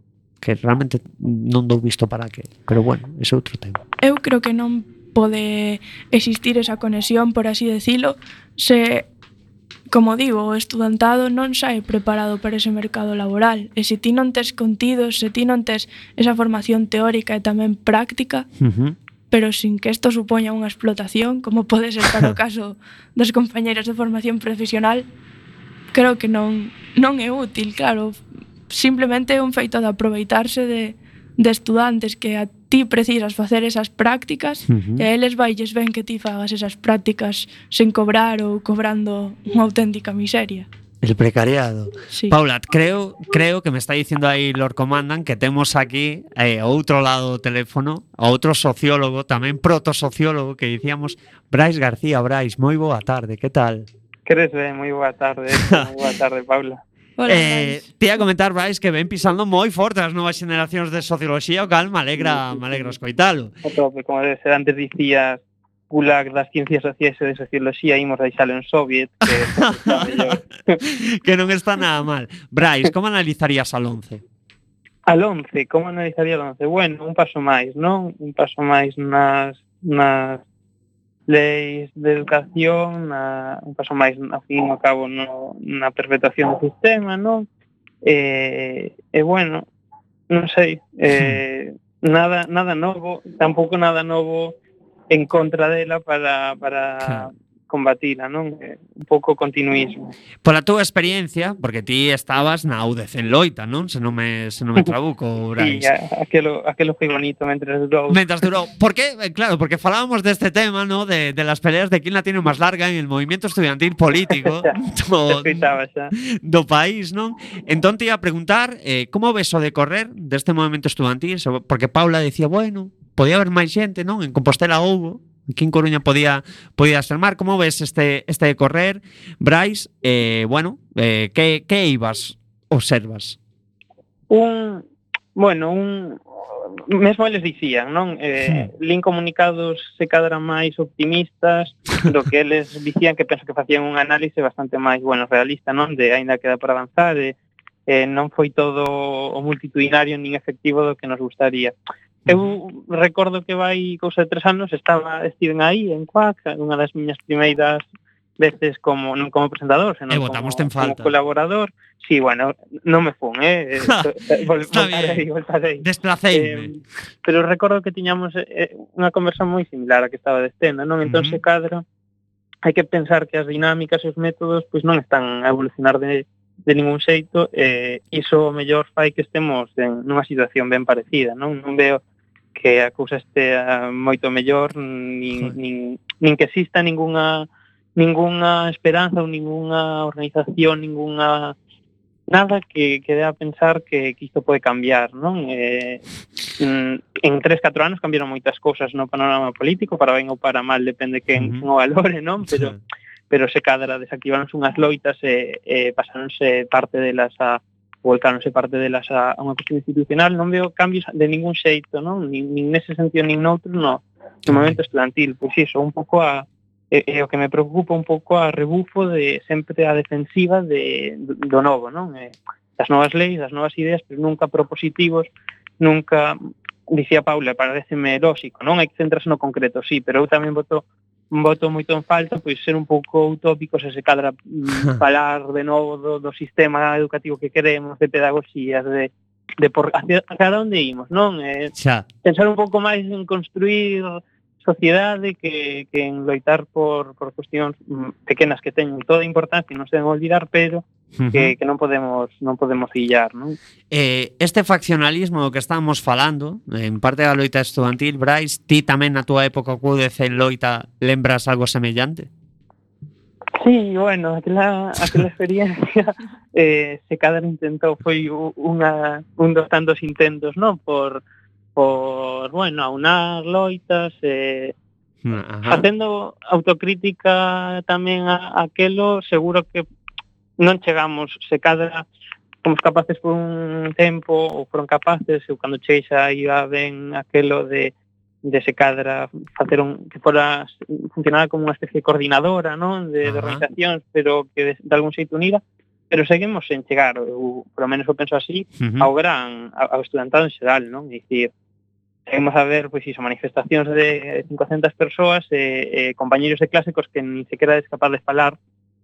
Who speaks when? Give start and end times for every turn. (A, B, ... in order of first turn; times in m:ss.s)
0:00.4-0:03.8 A
0:04.0-0:09.1 B
0:09.9-0:18.5 B
0:18.6-0:19.0 A
0:19.3-0:25.0 B
0:25.9-0:40.7 B
0:34.7-0:35.1 A
0:41.0-0:53.9 A
0:54.2-0:56.8 C
0:55.6-0:55.9 A
0:57.2-0:57.8 B
0:57.3-1:03.5 A
1:03.6-1:10.8 C
1:09.4-1:10.4 A
1:10.9-1:14.2 A
1:15.1-1:20.4 C
1:21.3-1:27.5 C
1:28.0-1:29.6 C
1:30.3-1:34.5 C
1:31.1-1:31.4 A
1:35.1-1:40.0 C
1:40.4-1:45.9 A
1:45.6-1:48.5 C
1:48.1-2:13.4 A
1:54.3-1:54.7 C
1:55.3-1:56.1 C
2:14.3-2:16.2 C
2:16.9-2:27.3 C
2:27.9-2:31.7 C
2:32.3-2:37.9 C
2:38.4-2:51.8 C
2:40.1-2:41.1 A
2:43.9-2:45.2 A
2:45.8-2:46.7 A
2:51.0-2:51.4 A
2:52.6-3:02.0 C
3:02.5-3:11.5 C
3:12.3-3:16.0 C
3:16.6-3:22.7 C
3:21.4-3:21.6 A
3:22.5-3:22.8 A
3:23.3-3:45.3 C
3:34.5-3:34.8 A
3:45.8-3:46.4 C
3:46.9-4:01.7 C
4:01.7-4:02.1 A
4:02.2-4:13.6 C
4:11.2-4:11.5 A
4:13.9-4:22.3 A
4:23.6-4:31.2 C
4:31.8-4:34.7 C
4:35.2-4:35.8 A
4:35.7-4:39.8 C
4:40.6-4:42.0 C
4:42.6-4:47.9 C
4:48.4-5:01.5 C
4:53.2-4:53.6 A
4:58.8-4:59.1 A
5:02.3-5:08.6 C